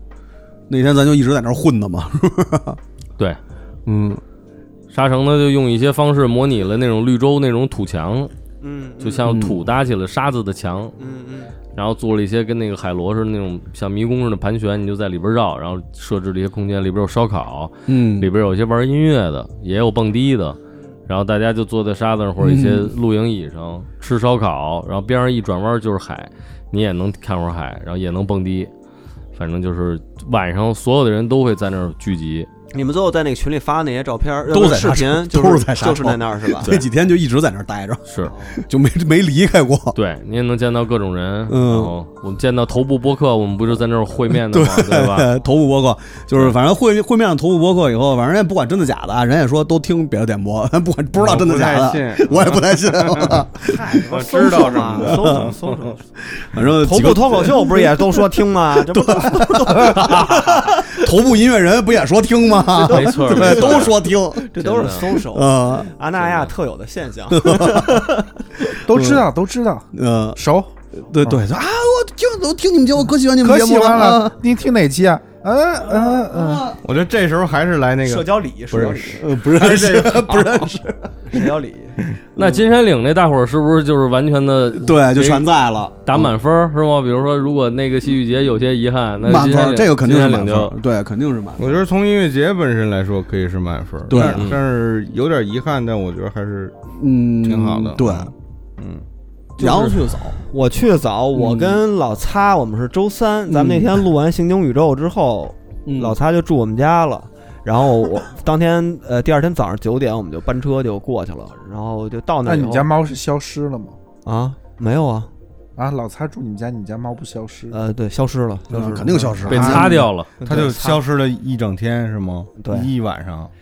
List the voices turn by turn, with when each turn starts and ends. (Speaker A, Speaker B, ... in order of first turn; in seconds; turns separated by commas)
Speaker A: 0.7-2.8, Speaker A: 3.9-4.2, Speaker B: 4.9-8.3, Speaker C: 8.6-9.3, Speaker B: 9.0-10.9, Speaker A: 9.3-9.6, Speaker C: 11.0-11.5, Speaker B: 11.7-28.7, Speaker A: 17.9-18.3, Speaker A: 22.4-22.9, Speaker B: 29.3-32.5, Speaker C: 32.7-36.9, Speaker A: 34.5-40.0, Speaker B: 38.1-38.3, Speaker C: 38.3-38.6, Speaker B: 40.0-45.3, Speaker A: 41.5-41.9, Speaker A: 44.3-54.0, Speaker D: 51.2-56.0, Speaker C: 53.7-56.1, Speaker A: 54.6-55.5, Speaker A: 56.3-65.9, Speaker C: 56.6-61.1, Speaker C: 62.8-68.3, Speaker B: 62.8-64.0, Speaker B: 64.6-65.1, Speaker B: 66.2-66.5, Speaker A: 67.3-68.1, Speaker E: 68.9-70.8, Speaker A: 68.9-69.3, Speaker A: 69.9-70.4, Speaker A: 71.0-74.4, Speaker E: 73.4-76.8, Speaker A: 75.9-76.7, Speaker D: 76.8-80.7, Speaker C: 78.0-79.3, Speaker A: 79.2-81.5, Speaker C: 81.3-82.0, Speaker B: 82.4-85.5, Speaker A: 84.8-86.3, Speaker B: 86.0-90.8, Speaker A: 89.2-91.8, Speaker D: 91.6-96.8, Speaker A: 94.1-94.5, Speaker B: 94.2-94.6, Speaker A: 97.0-98.3, Speaker D: 97.4-99.0, Speaker A: 99.6-100.4, Speaker C: 99.6-112.9, Speaker A: 101.3-101.8, Speaker A: 103.5-104.0, Speaker A: 105.9-106.2, Speaker E: 112.5-114.0, Speaker C: 114.3-115.3, Speaker E: 115.8-117.8, Speaker C: 117.7-121.0, Speaker A: 118.7-120.1, Speaker B: 119.5-120.3, Speaker D: 119.5-119.9, Speaker D: 120.5-123.5, Speaker C: 122.6-122.9